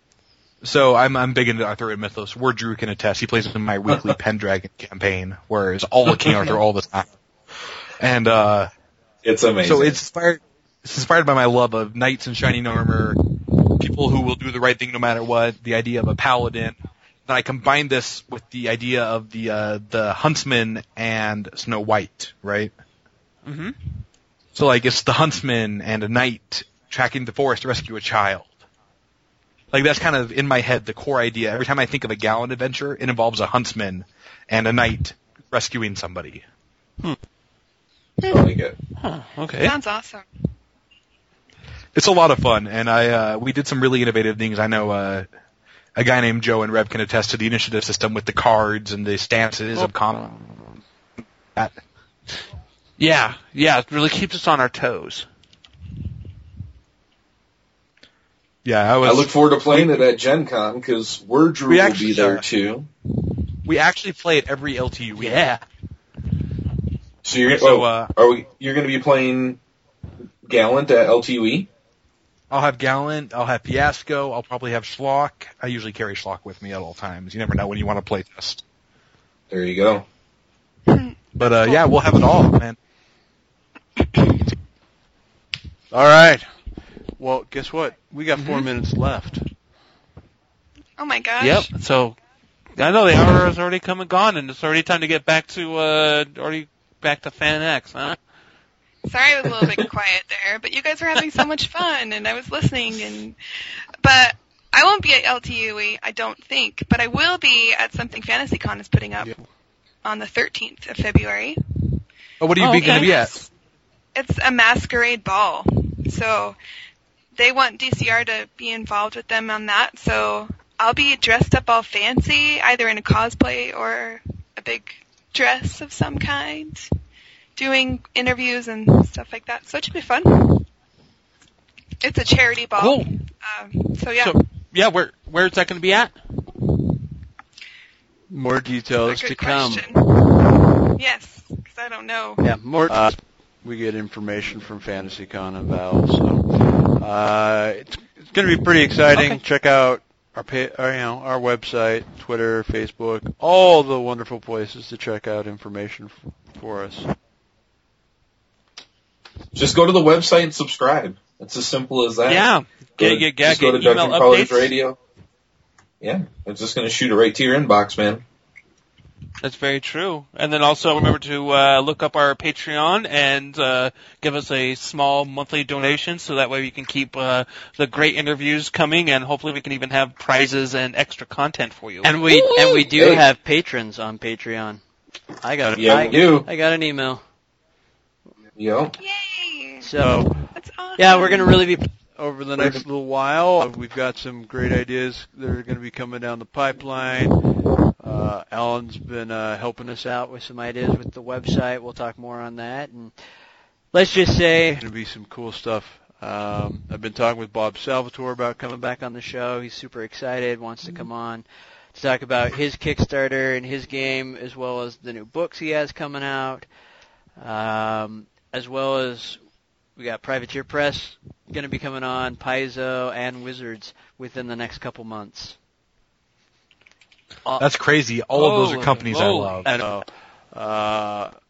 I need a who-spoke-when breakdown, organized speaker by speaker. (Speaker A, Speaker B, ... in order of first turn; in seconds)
Speaker A: 0.6-7.1, 8.0-8.7, 9.6-13.2, 13.8-16.7, 17.3-22.7, 24.5-28.5, 29.7-36.4, 41.9-45.3, 46.0-50.8, 58.6-60.1, 61.7-62.5, 63.6-65.5, 67.5-68.1, 72.5-78.6, 81.4-82.8, 112.4-113.4, 227.6-229.7
Speaker B: 9.2-10.0, 38.3-38.8, 59.0-62.9, 67.2-69.6, 70.4-71.7, 79.5-80.0, 159.5-162.4, 163.0-165.0, 166.0-168.2, 182.3-183.2, 185.8-186.5, 188.6-188.9
Speaker C: 23.4-23.8, 39.0-39.7, 53.0-55.2, 65.2-65.6, 88.3-88.7, 91.4-92.2, 92.8-98.2, 112.6-113.2, 132.8-133.1, 134.2-136.1, 149.1-149.4, 162.3-164.7, 169.4-182.1, 228.3-229.6
Speaker D: 39.5-40.2, 80.9-81.9, 91.0-91.7, 99.0-103.3, 104.0-109.3, 110.0-111.6, 112.8-113.2, 114.1-116.6, 117.3-126.9, 127.5-130.7, 132.0-134.4, 139.0-142.5, 189.0-189.9, 190.5-191.6
Speaker E: 85.9-86.5, 87.2-89.5, 138.3-139.9, 142.8-157.1, 185.6-186.1, 192.1-197.4, 198.0-200.1, 204.8-208.7, 229.6-231.3
Speaker F: 142.4-143.1, 182.0-184.8, 185.4-187.2, 189.8-190.4, 191.0-191.9, 200.0-203.1, 203.9-204.8, 208.6-216.7, 217.4-219.4, 220.0-225.6